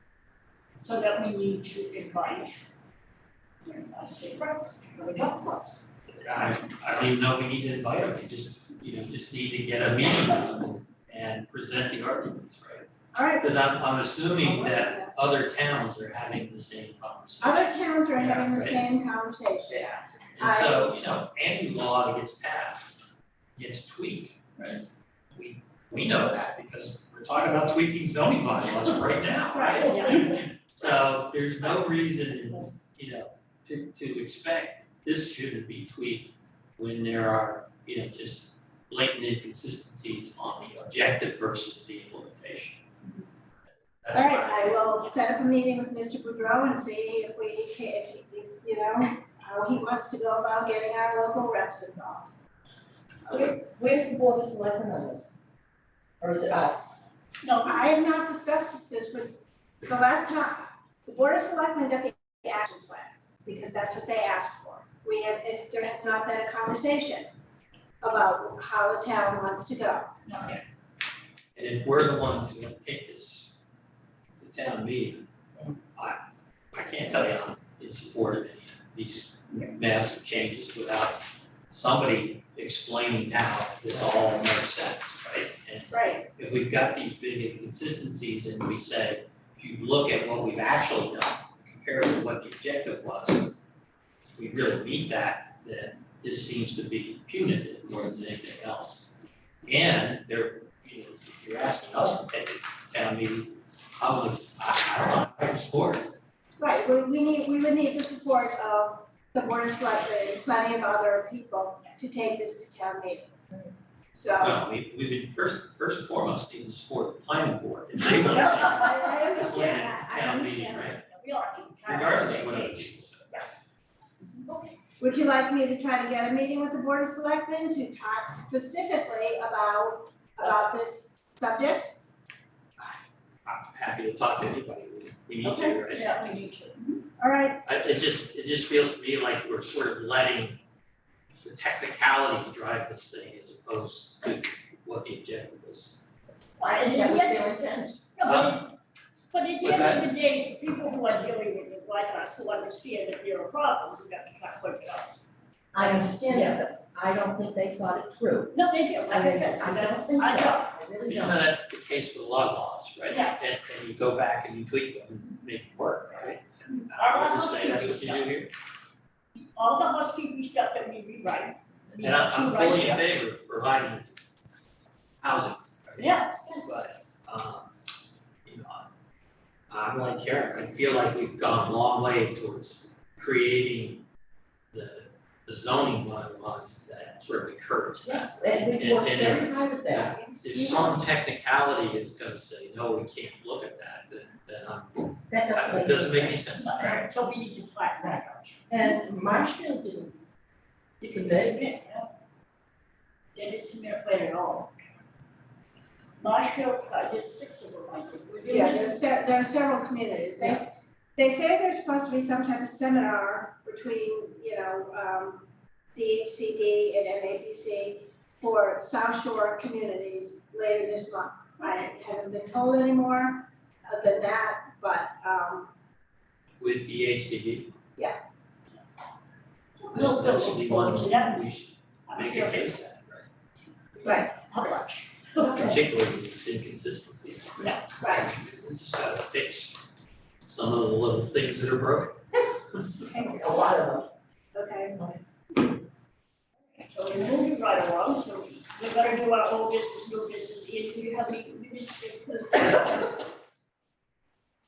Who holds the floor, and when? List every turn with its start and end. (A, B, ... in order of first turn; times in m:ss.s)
0:00.8-0:02.6 A
0:03.6-0:05.8 A
0:06.2-0:12.9 B
0:13.1-0:13.5 C
0:13.4-0:18.8 B
0:14.4-0:15.1 C
0:17.4-0:21.0 C
0:20.4-0:22.9 B
0:23.6-0:24.8 B
0:25.3-0:42.8 B
0:29.5-0:29.9 C
0:29.8-0:30.4 A
0:44.0-0:45.0 B
0:44.1-0:52.3 C
0:53.3-0:55.3 D
0:56.2-0:56.9 D
0:57.4-0:57.8 A
0:57.6-1:07.3 C
1:08.0-1:10.1 C
1:11.6-1:13.5 B
1:14.4-1:15.3 B
1:16.7-1:33.5 B
1:25.9-1:26.2 C
1:34.3-1:39.1 B
1:39.7-1:46.2 B
1:46.6-1:53.3 C
1:54.1-1:54.6 C
1:54.4-2:01.0 B
1:58.5-2:00.5 C
2:00.2-2:03.4 A
2:01.8-2:03.4 B
2:05.0-2:11.9 C
2:12.8-2:16.1 B
2:15.4-2:15.7 C
2:15.8-2:17.0 A
2:17.2-2:17.6 C
2:17.6-2:20.6 B
2:21.4-2:26.0 B
2:26.6-2:27.5 A
2:26.6-2:28.0 D
2:28.2-2:28.7 A
2:28.2-2:28.6 B
2:29.3-2:35.1 A
2:29.6-2:30.1 B
2:35.7-2:38.5 D
2:35.8-2:36.4 A
2:38.5-2:40.7 A
2:39.1-2:41.5 D
2:41.1-2:48.5 B
2:43.1-2:43.4 A
2:46.9-2:48.4 A
2:49.4-2:53.0 A
2:52.0-2:54.2 B
2:55.2-2:57.8 B
2:56.0-2:56.3 A
2:58.4-2:58.9 B
2:59.7-3:04.0 B
3:04.7-3:16.9 B
3:08.0-3:10.1 D
3:10.0-3:11.0 C
3:15.3-3:16.5 D
3:16.6-3:18.8 A
3:18.7-3:20.2 D
3:21.0-3:22.1 A
3:21.0-3:21.6 D
3:23.4-3:24.7 A
3:26.2-3:29.0 A
3:28.5-3:45.7 C
3:46.6-3:47.8 B
3:49.8-3:51.5 A
3:49.9-3:53.3 B
3:52.1-3:52.7 A
3:54.0-3:54.3 C
3:54.0-3:55.7 A
3:55.4-3:55.8 D
3:55.4-3:59.8 B
3:57.6-3:57.9 A
3:58.0-3:58.3 C
4:00.4-4:02.2 B
4:03.1-4:04.1 D
4:04.5-4:05.0 C
4:06.8-4:13.2 A